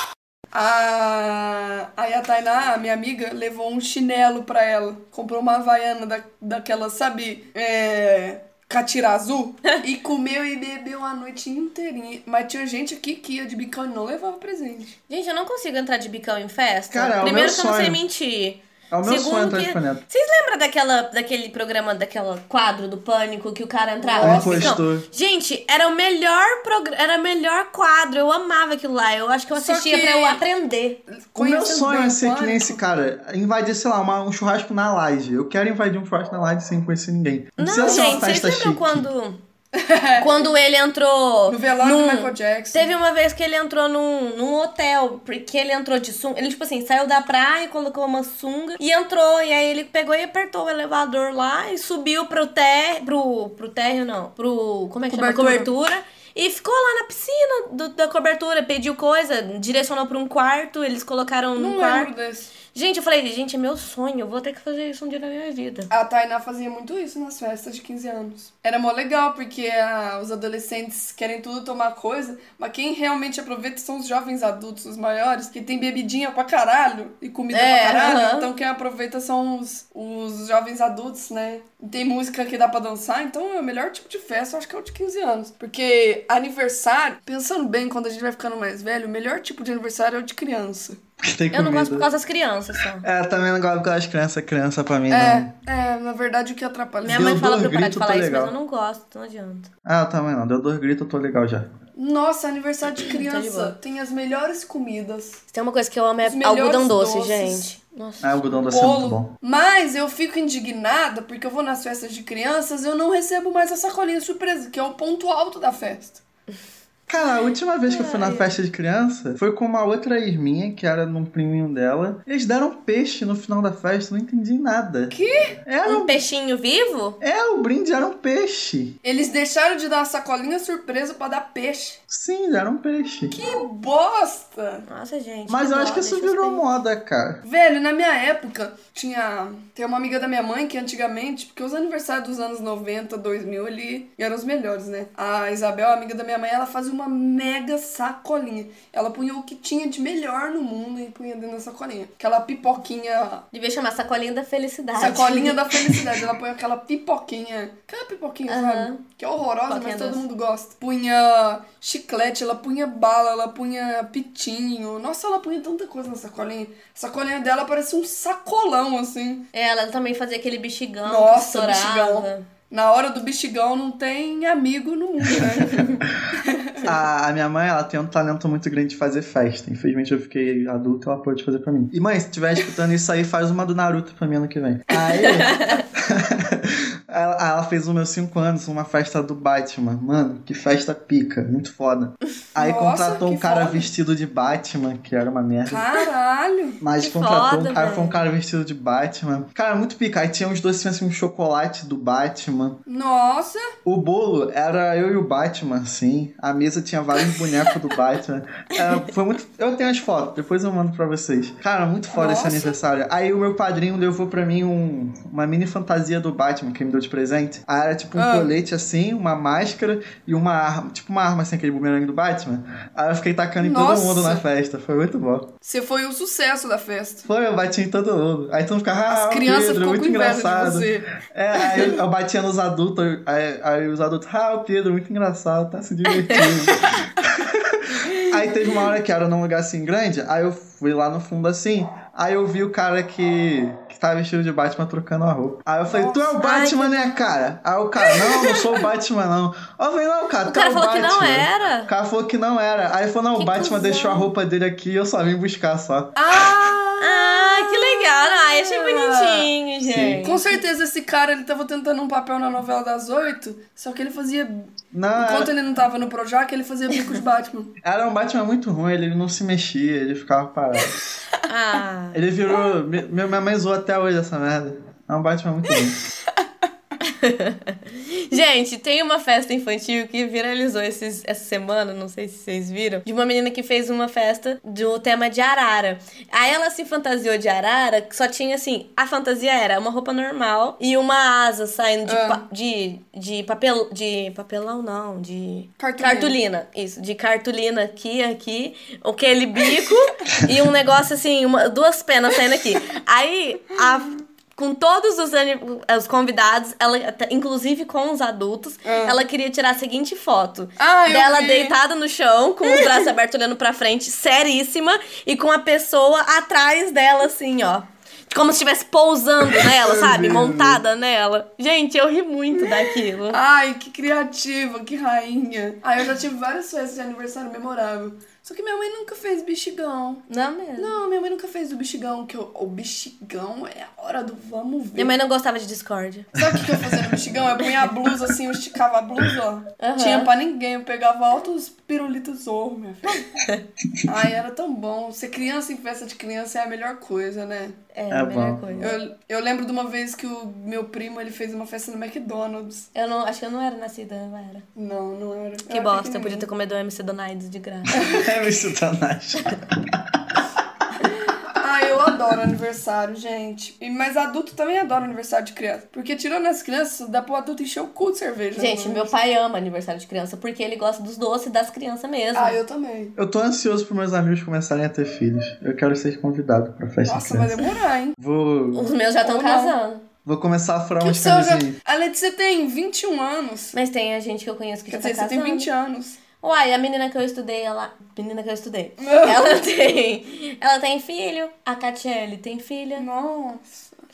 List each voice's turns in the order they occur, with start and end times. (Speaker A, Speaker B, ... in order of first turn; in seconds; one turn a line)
Speaker A: 0.5-15.0
Speaker B: 15.1-31.0
Speaker C: 16.9-18.0
Speaker C: 18.9-20.0
Speaker A: 24.0-24.8
Speaker C: 24.2-25.0
Speaker A: 29.5-30.4
Speaker A: 31.1-32.8
Speaker C: 31.4-39.1
Speaker B: 37.6-39.4
Speaker A: 37.8-38.4
Speaker A: 39.7-40.4
Speaker B: 40.1-62.1
Speaker A: 41.5-42.9
Speaker A: 55.1-55.7
Speaker A: 61.5-62.5
Speaker B: 62.7-65.9
Speaker A: 65.9-91.0
Speaker B: 77.5-78.5
Speaker C: 91.2-92.1
Speaker B: 91.5-93.0
Speaker C: 93.0-95.5
Speaker A: 95.1-97.3
Speaker B: 97.0-99.7
Speaker C: 97.1-98.5
Speaker C: 99.8-101.7
Speaker A: 102.0-105.4
Speaker B: 103.0-103.7
Speaker B: 105.5-108.6
Speaker A: 106.2-107.7
Speaker C: 108.2-109.3
Speaker A: 108.7-116.2
Speaker C: 117.1-125.1
Speaker B: 117.9-118.5
Speaker A: 125.1-125.5
Speaker C: 125.7-126.2
Speaker B: 125.8-127.2
Speaker C: 127.2-128.9
Speaker A: 129.0-132.0
Speaker C: 132.1-133.4
Speaker A: 133.3-134.8
Speaker B: 134.9-136.6
Speaker C: 135.5-137.4
Speaker A: 137.4-153.4
Speaker B: 153.5-155.9
Speaker A: 155.0-169.5
Speaker B: 158.5-159.0
Speaker B: 159.7-160.2
Speaker B: 169.5-172.4
Speaker A: 171.0-176.9
Speaker B: 175.6-175.9
Speaker C: 176.8-195.8
Speaker A: 184.9-185.3
Speaker B: 185.3-185.8
Speaker A: 192.6-193.9
Speaker A: 195.7-196.8
Speaker C: 196.8-202.8
Speaker B: 197.0-198.2
Speaker A: 202.9-203.7
Speaker C: 203.8-225.5
Speaker A: 212.1-212.8
Speaker A: 218.2-218.5
Speaker A: 223.6-224.4
Speaker A: 225.6-227.2
Speaker C: 227.2-256.2
Speaker A: 229.1-231.1
Speaker A: 231.7-231.9
Speaker A: 245.9-246.3
Speaker B: 246.4-247.3
Speaker A: 248.1-248.8
Speaker B: 250.4-251.9
Speaker B: 253.3-254.3
Speaker A: 256.1-259.5
Speaker B: 257.0-260.6
Speaker C: 259.8-260.2
Speaker A: 260.2-267.7
Speaker C: 264.9-265.5
Speaker C: 267.8-271.0
Speaker B: 271.5-272.2
Speaker C: 272.1-276.0
Speaker B: 277.0-323.4
Speaker A: 292.1-292.4
Speaker A: 295.8-296.4
Speaker A: 308.8-309.2
Speaker A: 310.8-311.8
Speaker A: 312.7-313.0
Speaker C: 319.5-320.8
Speaker A: 322.6-330.2
Speaker B: 330.3-330.9
Speaker A: 330.8-335.1
Speaker B: 334.9-336.3
Speaker A: 336.4-343.3
Speaker C: 336.4-337.2
Speaker B: 339.8-340.3
Speaker A: 344.1-347.8
Speaker B: 347.9-348.9
Speaker C: 348.1-348.7
Speaker A: 348.8-352.9
Speaker B: 352.9-354.6
Speaker A: 354.8-356.5
Speaker B: 355.7-358.0
Speaker A: 357.9-358.3
Speaker C: 358.0-360.6
Speaker A: 361.0-369.1
Speaker B: 368.5-372.6
Speaker A: 372.3-373.1
Speaker C: 373.1-377.6
Speaker A: 377.0-378.1
Speaker C: 378.2-378.9
Speaker B: 378.7-380.0
Speaker A: 379.2-379.8
Speaker C: 380.2-381.8
Speaker A: 381.0-383.8
Speaker B: 383.7-385.7
Speaker A: 384.9-386.2
Speaker B: 386.4-393.1
Speaker A: 389.0-389.6
Speaker A: 393.0-393.9